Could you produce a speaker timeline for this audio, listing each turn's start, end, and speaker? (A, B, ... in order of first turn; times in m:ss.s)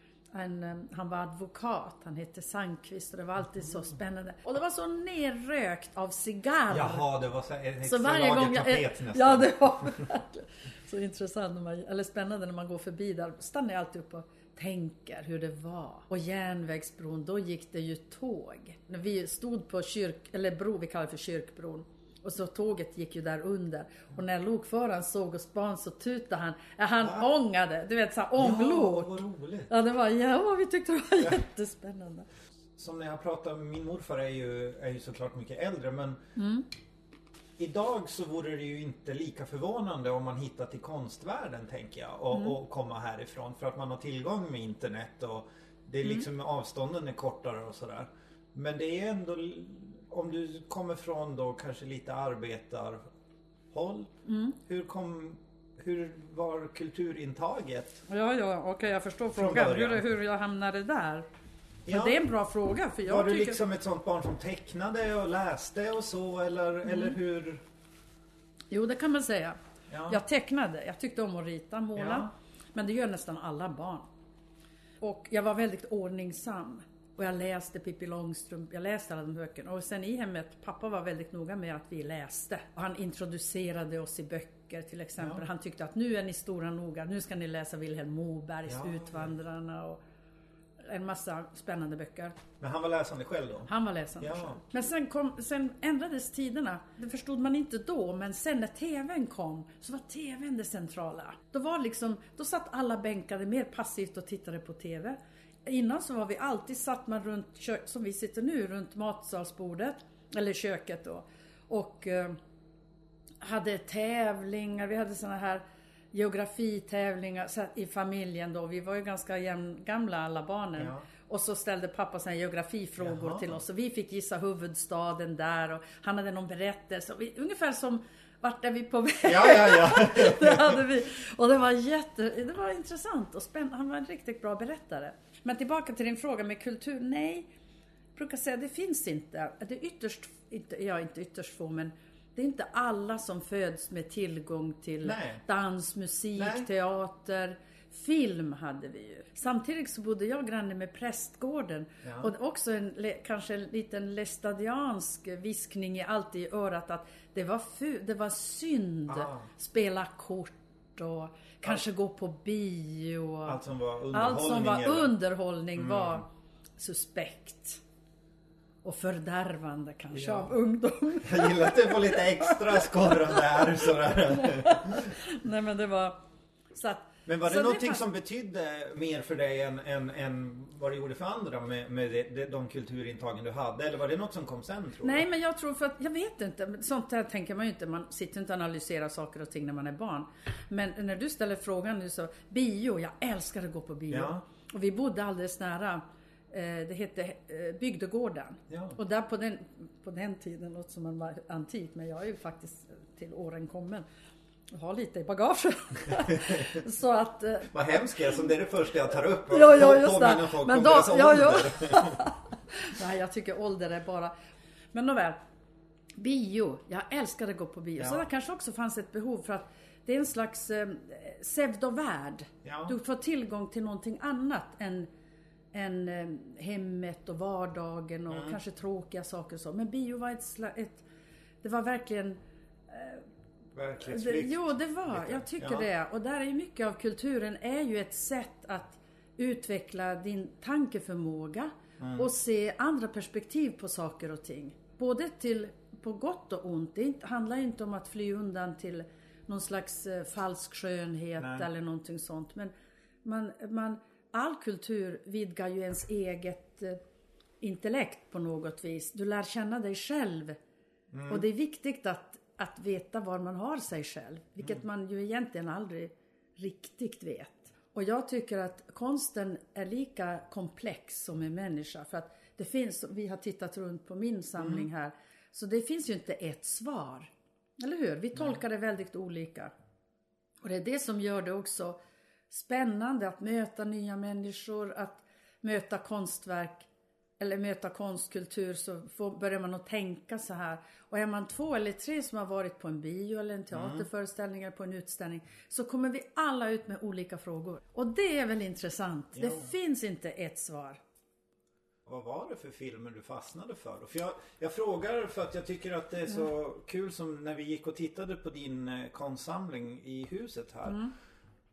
0:00.3-0:07.1 A
0:06.7-0:10.0 B
0:07.8-0:32.3 A
0:27.0-0:27.3 B
0:28.4-0:29.7 B
0:32.8-0:36.2 B
0:36.4-0:36.7 A
0:37.6-0:53.0 B
0:53.7-0:58.0 B
0:54.2-0:54.6 A
0:58.1-1:01.3 A
0:59.3-1:00.1 B
1:01.9-1:02.2 B
1:01.9-1:03.6 A
1:03.1-1:07.6 B
1:06.9-1:07.2 A
1:08.7-1:14.1 A
1:09.9-1:10.2 B
1:12.0-1:12.3 B
1:15.0-1:30.0 A
1:25.2-1:25.4 B
1:28.7-1:29.3 B
1:30.8-1:32.4 A
1:32.6-1:34.6 B
1:33.7-1:52.4 A
1:53.4-2:17.5 A
2:00.8-2:01.1 B
2:03.0-2:03.6 B
2:09.2-2:10.8 B
2:18.2-2:43.6 A
2:25.0-2:25.4 B
2:26.4-2:26.7 B
2:32.0-2:32.3 B
2:39.1-2:39.5 B
2:43.4-2:45.2 B
2:44.1-2:47.8 A
2:45.8-2:46.2 B
2:48.8-2:56.2 A
2:50.1-2:50.5 B
2:51.2-2:55.2 B
2:56.7-2:58.0 A
2:57.3-3:05.2 B
3:05.0-3:24.1 A
3:14.1-3:14.4 B
3:18.7-3:19.0 B
3:24.7-3:28.5 A
3:26.2-3:26.8 B
3:27.7-3:32.2 B
3:29.1-3:34.3 A
3:34.9-3:35.4 A
3:36.2-3:45.1 A
3:38.0-3:38.2 B
3:42.6-3:43.0 B
3:45.7-3:51.0 A
3:48.3-3:48.6 B
3:51.6-3:53.2 A
3:53.8-3:55.9 B
3:54.0-4:12.7 A
4:02.0-4:02.3 B
4:11.4-4:11.7 B
4:13.2-4:17.0 A
4:17.6-4:20.6 A
4:21.1-4:21.5 B
4:21.3-4:39.7 A
4:34.6-4:34.8 B
4:40.6-5:01.0 A
4:53.7-4:54.1 B
4:59.4-4:59.7 B
5:02.1-5:11.0 B
5:10.9-5:11.1 A